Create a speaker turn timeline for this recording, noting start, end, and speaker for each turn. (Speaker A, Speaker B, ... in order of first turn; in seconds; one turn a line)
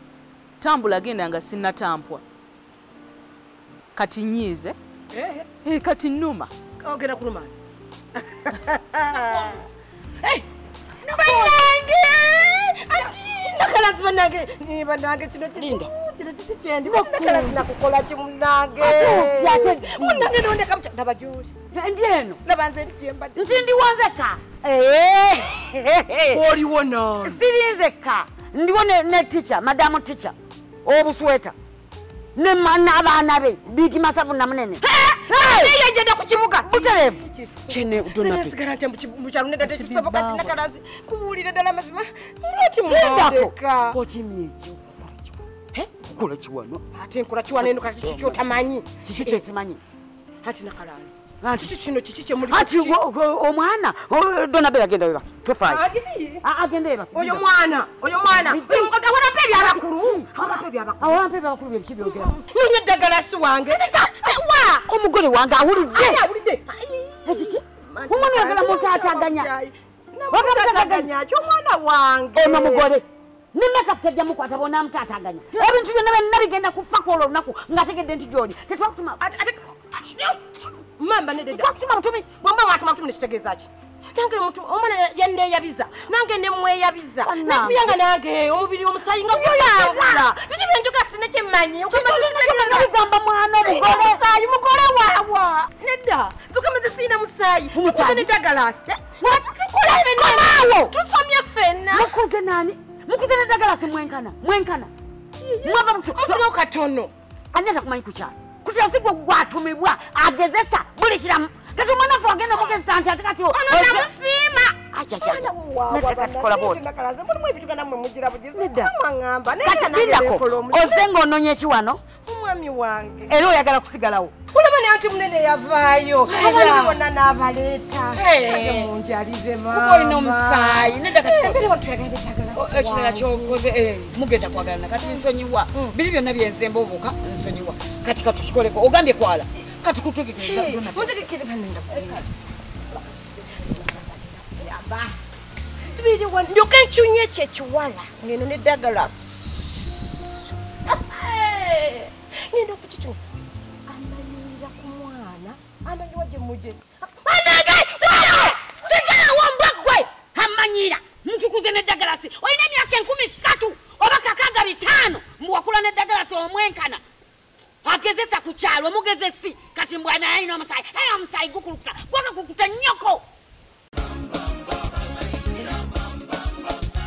Speaker A: 0.6-2.2
Speaker A: 3.9-4.8
Speaker B: 5.1-5.5
Speaker A: 5.6-6.5
Speaker B: 6.8-7.5
Speaker B: 8.2-9.6
Speaker B: 11.1-21.5
Speaker C: 11.1-11.7
Speaker C: 15.6-15.9
Speaker C: 16.8-17.6
Speaker C: 18.8-20.4
Speaker C: 21.7-22.4
Speaker B: 22.4-23.6
Speaker C: 23.4-26.4
Speaker B: 26.3-27.4
Speaker C: 27.2-31.5
Speaker C: 32.4-35.8
Speaker B: 34.8-44.0
Speaker C: 36.7-38.5
Speaker A: 39.6-40.6
Speaker C: 42.9-45.3
Speaker C: 45.9-46.8
Speaker B: 46.9-49.4
Speaker C: 47.6-48.4
Speaker C: 49.0-49.8
Speaker B: 50.4-53.0
Speaker C: 51.4-51.7
Speaker C: 52.5-55.8
Speaker B: 55.6-56.4
Speaker C: 56.4-57.4
Speaker B: 57.1-61.2
Speaker C: 58.3-62.4
Speaker B: 62.0-64.8
Speaker C: 63.7-64.1
Speaker C: 64.8-66.2
Speaker B: 65.7-72.9
Speaker C: 67.2-69.5
Speaker C: 70.3-71.1
Speaker C: 72.3-79.2
Speaker B: 75.5-75.9
Speaker B: 79.2-81.7
Speaker C: 81.5-82.4
Speaker B: 82.3-92.9
Speaker C: 87.2-88.0
Speaker C: 89.2-90.3
Speaker C: 91.9-94.2
Speaker B: 93.6-102.1
Speaker C: 97.7-98.3
Speaker C: 99.2-100.9
Speaker C: 101.9-104.9
Speaker B: 105.4-107.1
Speaker C: 105.6-106.5
Speaker C: 107.5-114.1
Speaker B: 112.5-112.8
Speaker B: 113.5-121.0
Speaker C: 114.8-116.8
Speaker C: 118.5-118.9
Speaker C: 119.6-122.0
Speaker B: 122.2-123.4
Speaker C: 123.3-124.3
Speaker B: 124.5-134.2
Speaker C: 126.2-127.0
Speaker C: 128.1-128.9
Speaker C: 129.7-131.6
Speaker C: 132.5-141.2
Speaker B: 135.0-137.5
Speaker B: 140.4-145.2
Speaker B: 145.9-150.2
Speaker B: 150.8-153.2
Speaker B: 153.9-158.8
Speaker C: 157.4-167.0
Speaker C: 167.8-173.2
Speaker A: 174.7-176.4